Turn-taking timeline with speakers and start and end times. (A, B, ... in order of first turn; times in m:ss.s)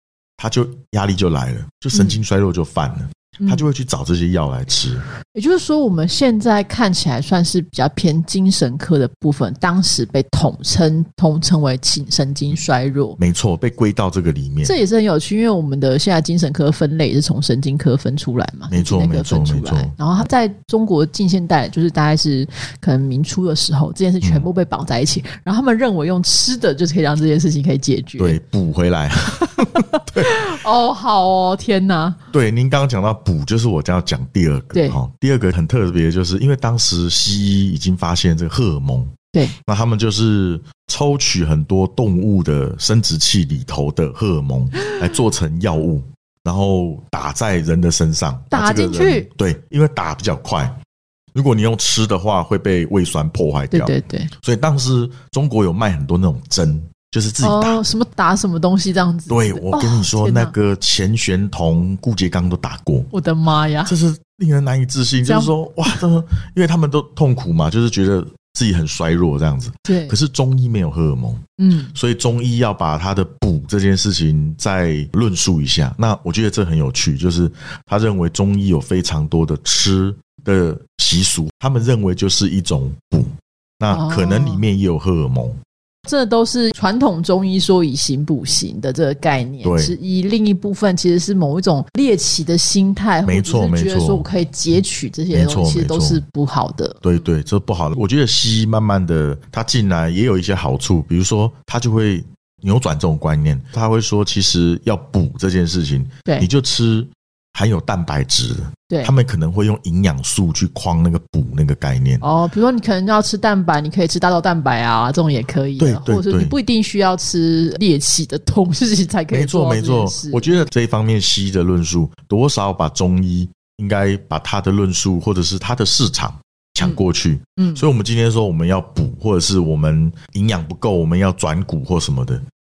0:00.4-0:05.0 A
0:01.9-0:02.2 B
0:05.3-0:13.2 B
0:13.2-0:14.7 A
0:14.6-0:28.4 B
0:18.7-0:19.9 A
0:28.2-0:30.5 A
0:29.5-0:32.2 B
0:32.3-0:39.1 A
0:34.7-0:35.0 B
0:39.6-0:50.8 A
0:48.5-0:49.3 B
0:51.3-0:57.8 A
0:53.7-0:54.3 B
0:57.4-1:00.5 B
0:59.3-1:03.1 A
1:03.1-1:03.9 B
1:03.9-1:11.4 A
1:05.2-1:06.0 B
1:09.8-1:10.1 B
1:11.6-1:11.9 B
1:12.0-1:25.6 A
1:23.9-1:24.6 B
1:26.0-1:37.0 B
1:29.6-1:30.0 A
1:33.2-1:34.3 A
1:35.3-1:36.2 A
1:37.0-1:52.2 A
1:52.2-2:00.6 B
1:55.8-1:56.5 A
1:59.3-2:12.4 A
2:07.6-2:07.8 B